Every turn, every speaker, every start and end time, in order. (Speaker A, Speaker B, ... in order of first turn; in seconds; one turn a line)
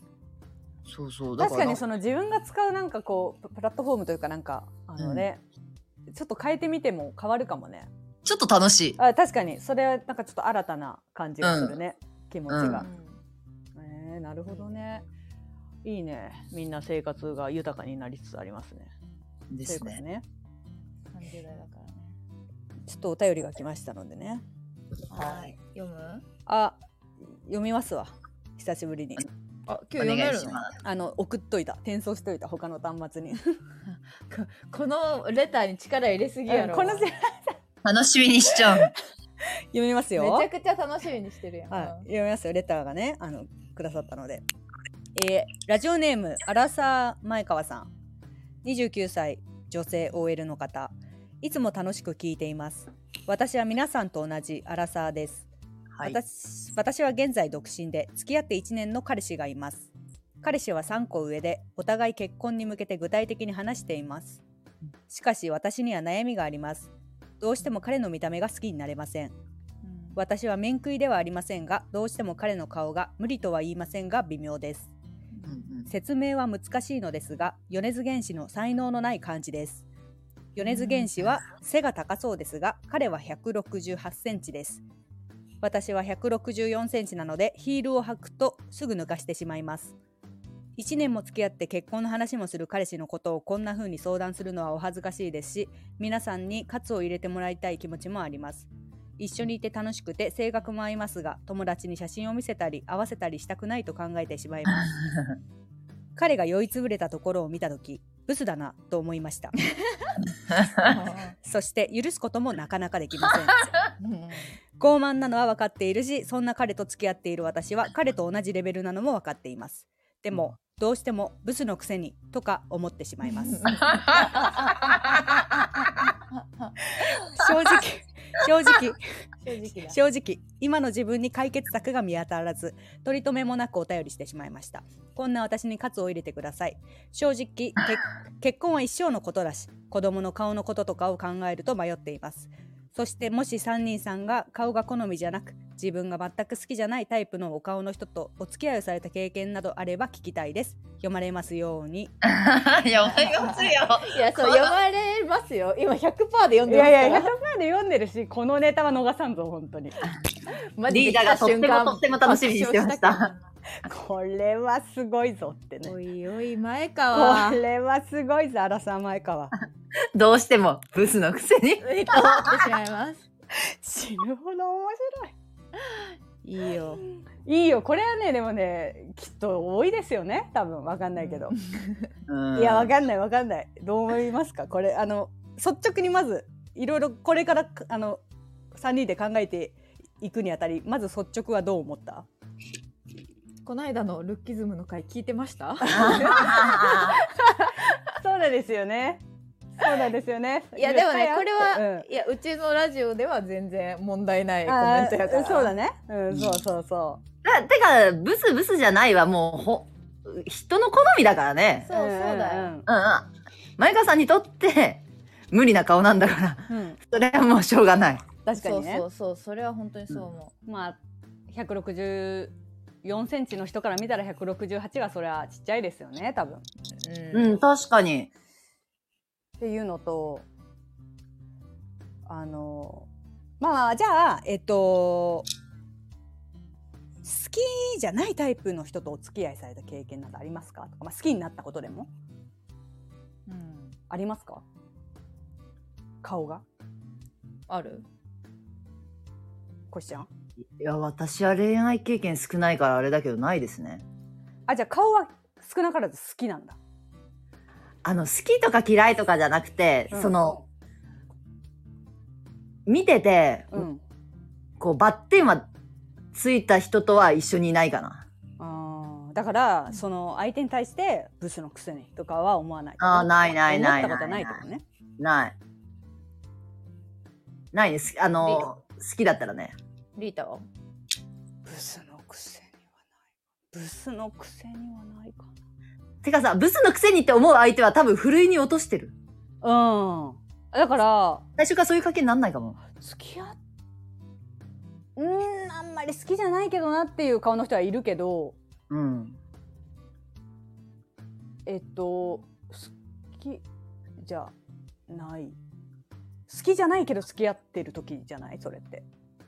Speaker A: 0.9-1.8
Speaker B: 1.4-5.4
Speaker A: 5.0-5.3
Speaker B: 6.1-7.9
Speaker A: 8.2-9.0
Speaker B: 9.0-12.9
Speaker A: 11.4-11.8
Speaker A: 12.5-12.8
Speaker C: 12.6-13.2
Speaker B: 13.8-15.1
Speaker C: 14.5-14.8
Speaker B: 15.8-18.9
Speaker A: 19.5-20.0
Speaker B: 19.7-20.2
Speaker C: 21.1-22.2
Speaker B: 22.9-24.4
Speaker C: 25.1-26.2
Speaker A: 25.1-25.5
Speaker B: 26.5-29.3
Speaker C: 29.7-30.7
Speaker A: 30.0-30.8
Speaker B: 30.8-33.6
Speaker C: 33.9-37.1
Speaker B: 36.5-37.5
Speaker A: 37.8-38.9
Speaker B: 38.5-39.0
Speaker B: 39.7-40.5
Speaker C: 40.2-42.1
Speaker B: 41.7-44.4
Speaker B: 45.1-47.9
Speaker B: 48.6-55.5
Speaker A: 55.9-56.2
Speaker B: 56.0-59.9
Speaker B: 60.4-64.4
Speaker B: 65.1-69.3
Speaker C: 69.8-70.2
Speaker B: 70.2-74.9
Speaker A: 75.5-75.9
Speaker B: 75.9-79.8
Speaker B: 80.5-84.8
Speaker C: 80.6-81.1
Speaker B: 85.6-89.9
Speaker B: 90.8-98.7
Speaker B: 99.2-105.0
Speaker B: 106.2-109.5
Speaker C: 110.8-111.3
Speaker B: 111.4-113.7
Speaker C: 114.0-114.5
Speaker B: 114.8-123.8
Speaker C: 123.3-127.1
Speaker A: 123.9-124.3
Speaker B: 127.0-129.0
Speaker C: 129.4-130.0
Speaker B: 129.9-152.1
Speaker A: 152.2-154.7
Speaker C: 153.1-157.3
Speaker B: 156.7-160.0
Speaker C: 160.8-163.4
Speaker A: 160.9-163.3
Speaker B: 163.8-165.9
Speaker C: 165.8-167.6
Speaker B: 167.1-169.5
Speaker A: 170.2-172.6
Speaker C: 171.8-173.2
Speaker B: 173.6-175.3
Speaker C: 176.4-177.0
Speaker B: 177.4-181.6
Speaker C: 181.2-182.0
Speaker A: 182.3-182.9
Speaker B: 182.6-188.2
Speaker B: 188.7-192.3
Speaker C: 193.7-197.7
Speaker B: 195.9-199.2
Speaker A: 195.9-197.2
Speaker B: 199.8-202.1
Speaker C: 200.8-205.7
Speaker B: 204.7-207.2
Speaker A: 206.3-206.6
Speaker A: 207.4-211.9
Speaker C: 211.9-212.7
Speaker B: 211.9-212.9
Speaker A: 212.9-218.3
Speaker B: 216.7-217.0
Speaker B: 218.4-219.0
Speaker C: 218.6-220.5
Speaker B: 220.7-221.0
Speaker B: 221.5-226.6
Speaker C: 227.0-227.6
Speaker A: 227.3-228.3
Speaker B: 229.6-230.5
Speaker B: 232.3-233.1
Speaker B: 233.6-235.5
Speaker B: 237.2-242.1
Speaker C: 243.5-244.0
Speaker B: 244.1-244.6
Speaker B: 246.2-246.6
Speaker C: 247.7-248.1
Speaker B: 249.9-250.3
Speaker A: 250.8-254.0
Speaker B: 254.7-256.8
Speaker A: 258.0-260.6
Speaker A: 262.9-263.9
Speaker B: 263.7-264.0
Speaker A: 264.8-265.7
Speaker A: 266.3-268.3
Speaker B: 268.6-274.8
Speaker A: 273.0-274.6
Speaker A: 275.2-275.6
Speaker A: 277.7-279.8
Speaker C: 278.4-278.7
Speaker C: 280.2-280.7
Speaker B: 281.6-282.8
Speaker B: 283.7-285.5
Speaker A: 286.2-289.1
Speaker B: 289.6-291.4
Speaker A: 291.6-292.8
Speaker B: 293.0-293.6
Speaker B: 295.2-298.6
Speaker A: 298.9-299.4
Speaker B: 301.7-303.6
Speaker B: 304.2-304.5
Speaker B: 305.1-305.6
Speaker B: 306.5-309.1